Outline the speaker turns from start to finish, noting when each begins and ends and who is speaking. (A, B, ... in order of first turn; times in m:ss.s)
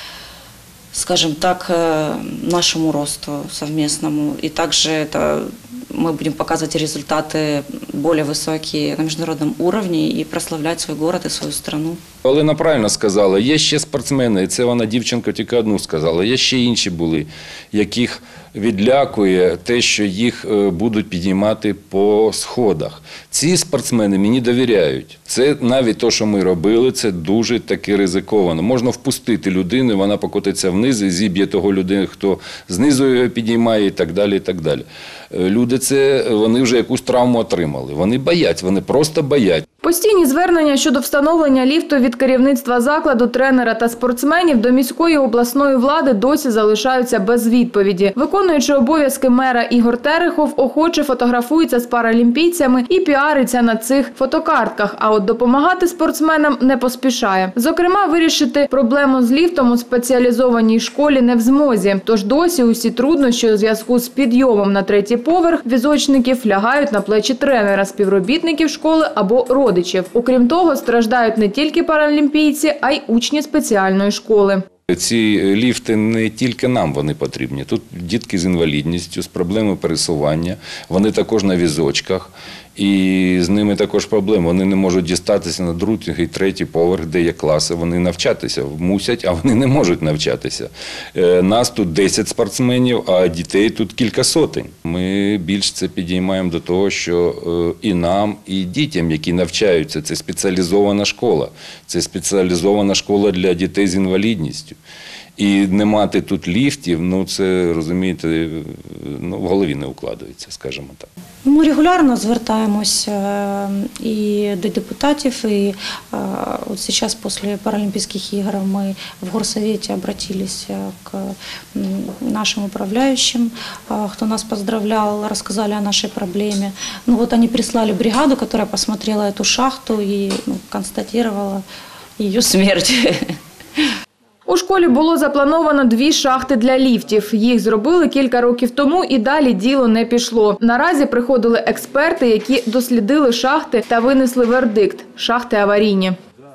0:00.9-0:12.0 A
0:12.2-0:39.7 B
0:39.8-1:14.6 C
1:14.9-1:44.8 B
1:45.4-1:51.1 B
1:51.4-2:11.6 A
2:12.2-2:13.4 A
2:14.5-2:26.2 C